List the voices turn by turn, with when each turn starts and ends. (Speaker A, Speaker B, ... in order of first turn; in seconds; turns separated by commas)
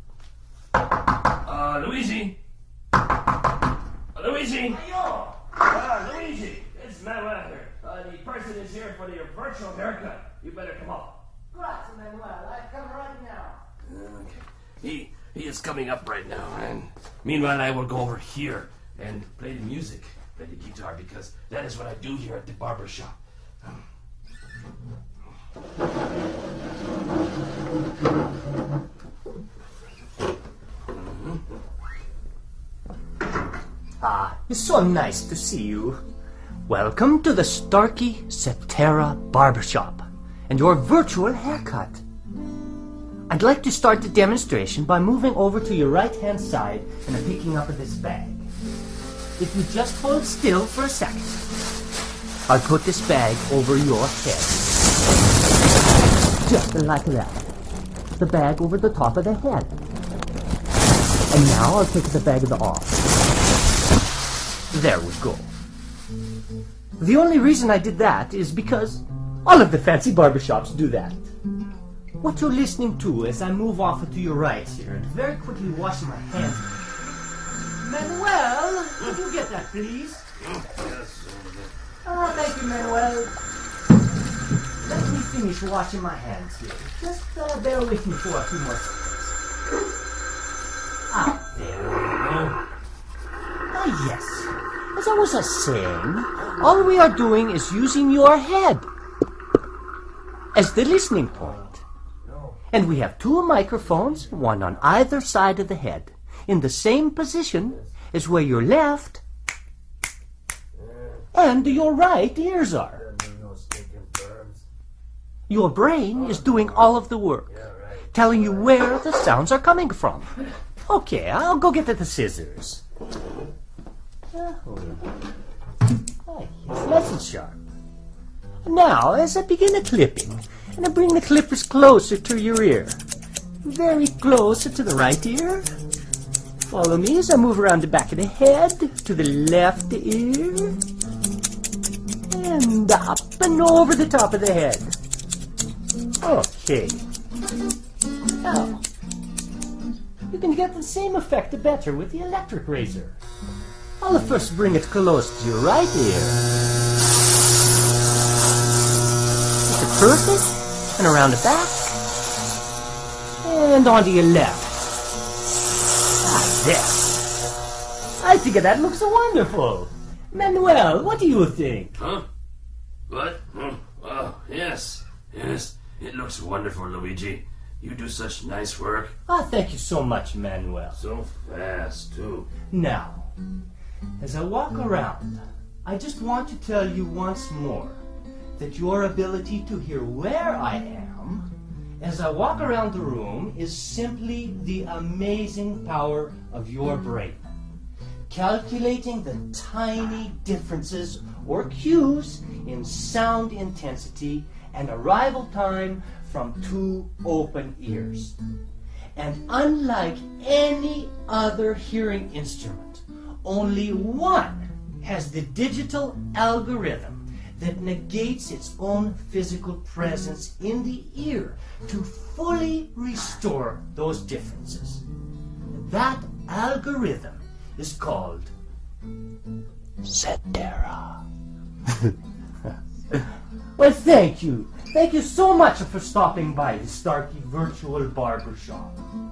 Speaker A: 1.4-2.4, Speaker A: 4.1-11.2, Speaker B: 11.5-13.6, Speaker A: 13.9-23.8, Speaker B: 34.0-36.0, Speaker B: 36.7-42.0, Speaker B: 43.3-48.5, Speaker B: 49.4-51.4, Speaker B: 52.5-54.6, Speaker B: 56.4-57.5, Speaker B: 58.2-59.8, Speaker B: 61.3-63.0, Speaker B: 64.7-65.5, Speaker B: 67.0-71.2, Speaker B: 72.2-76.7, Speaker B: 77.8-80.2, Speaker A: 80.5-81.7, Speaker B: 82.0-83.3, Speaker B: 84.8-89.4, Speaker B: 91.1-92.0, Speaker A: 91.8-92.6, Speaker B: 93.7-98.9, Speaker B: 100.5-101.8, Speaker B: 102.7-109.2, Speaker A: 110.8-111.2, Speaker B: 111.3-113.0, Speaker A: 113.0-114.6, Speaker B: 115.5-117.5, Speaker A: 116.1-117.0, Speaker A: 117.5-118.6, Speaker B: 118.1-120.3, Speaker B: 120.8-122.8, Speaker B: 124.3-125.1, Speaker B: 126.2-127.6, Speaker B: 128.6-133.0, Speaker B: 133.6-135.7, Speaker B: 136.6-140.8, Speaker B: 142.3-144.9, Speaker B: 146.2-147.0, Speaker B: 148.4-148.8, Speaker B: 150.3-153.2, Speaker B: 154.0-156.4, Speaker B: 159.6-162.0, Speaker B: 163.4-164.7, Speaker B: 166.2-167.1, Speaker B: 168.2-172.0, Speaker A: 172.0-172.2, Speaker A: 173.1-179.1, Speaker B: 179.3-181.0, Speaker A: 181.0-182.5, Speaker B: 182.7-183.3, Speaker B: 184.2-188.0, Speaker B: 188.6-191.5, Speaker B: 192.0-197.5, Speaker B: 198.3-208.3, Speaker B: 209.2-225.0, Speaker B: 225.7-228.5, Speaker B: 230.0-231.2, Speaker B: 233.8-239.0